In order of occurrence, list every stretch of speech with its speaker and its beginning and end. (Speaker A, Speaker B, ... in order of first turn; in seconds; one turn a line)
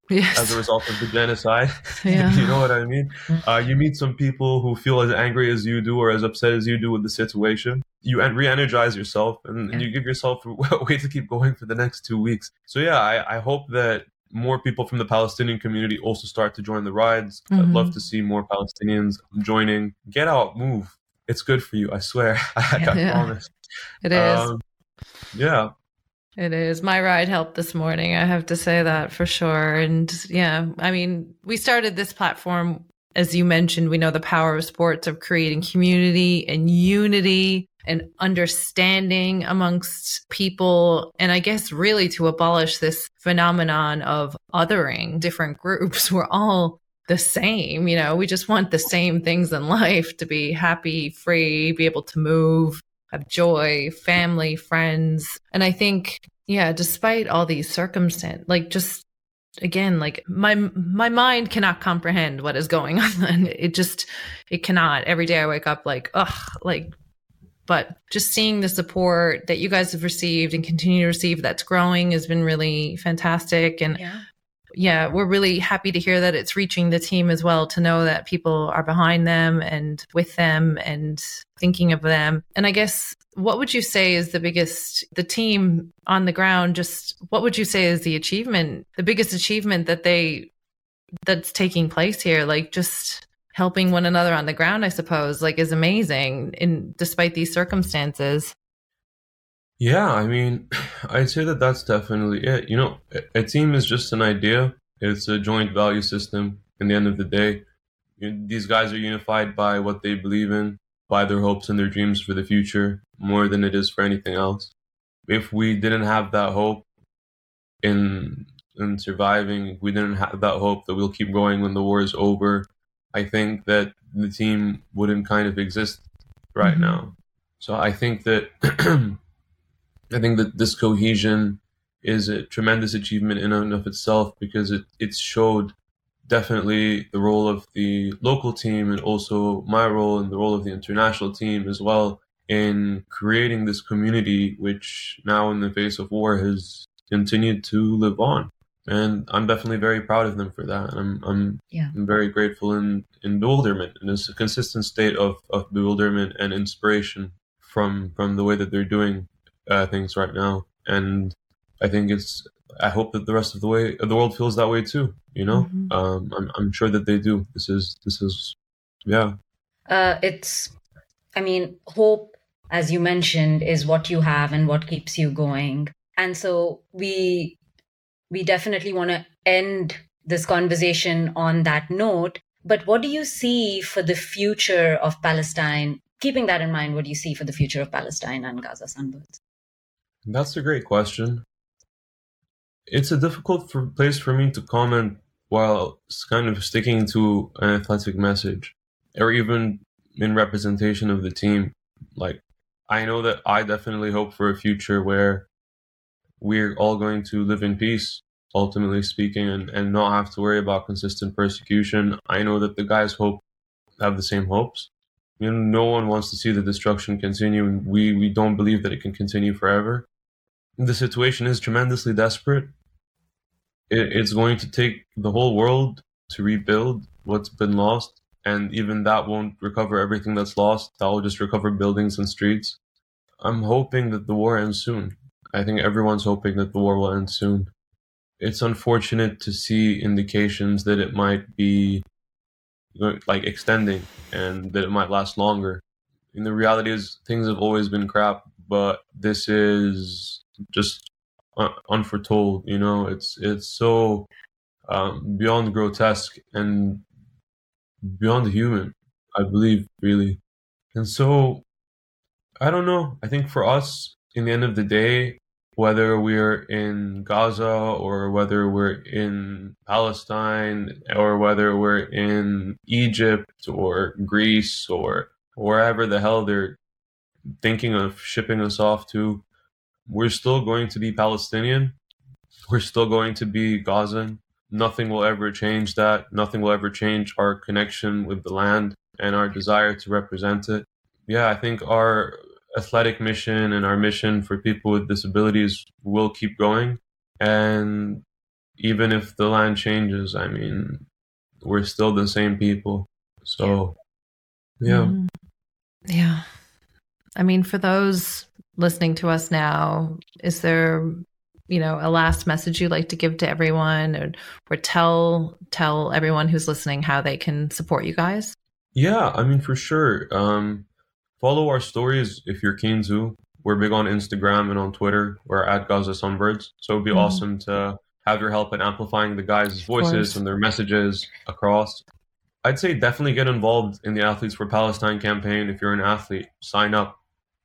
Speaker A: 0.1-0.7
Speaker B: 0.3-23.5
Speaker A: 2.0-2.6
Speaker A: 17.5-17.9
Speaker A: 22.8-23.3
Speaker A: 24.0-24.5
Speaker B: 24.1-24.6
Speaker B: 25.3-25.7
Speaker A: 26.4-59.0
Speaker A: 59.6-66.9
Speaker A: 67.7-74.0
Speaker C: 73.9-74.2
Speaker A: 74.7-90.5
Speaker A: 91.2-98.5
Speaker B: 99.8-107.6
Speaker B: 108.2-114.7
Speaker B: 115.3-116.9
Speaker B: 117.8-129.2
Speaker A: 126.6-127.0
Speaker B: 130.1-135.8
Speaker B: 136.3-169.3
Speaker A: 165.5-165.9
Speaker C: 169.9-170.7
Speaker C: 171.4-177.6
Speaker C: 178.3-189.4
Speaker B: 190.3-191.4
Speaker B: 192.9-205.5
Speaker B: 206.4-213.4
Speaker B: 214.0-220.1
Speaker B: 220.8-222.7
Speaker B: 223.9-232.8
Speaker B: 233.4-237.7
Speaker B: 238.4-242.1
Speaker B: 242.9-245.8
Speaker B: 246.3-254.3
Speaker B: 254.9-257.1
Speaker B: 258.0-260.4
Speaker B: 260.9-261.6
Speaker B: 262.6-276.8
Speaker B: 277.6-279.4
Speaker B: 280.1-282.0
Speaker B: 282.7-298.2
Speaker B: 298.8-301.1
Speaker B: 301.6-303.9
Speaker B: 304.8-305.1
Speaker A: 304.9-305.3
Speaker A: 306.1-306.4
Speaker A: 307.4-318.6
Speaker B: 318.9-320.9
Speaker B: 321.4-332.1
Speaker A: 327.1-327.4
Speaker A: 329.9-330.4
Speaker B: 332.6-337.2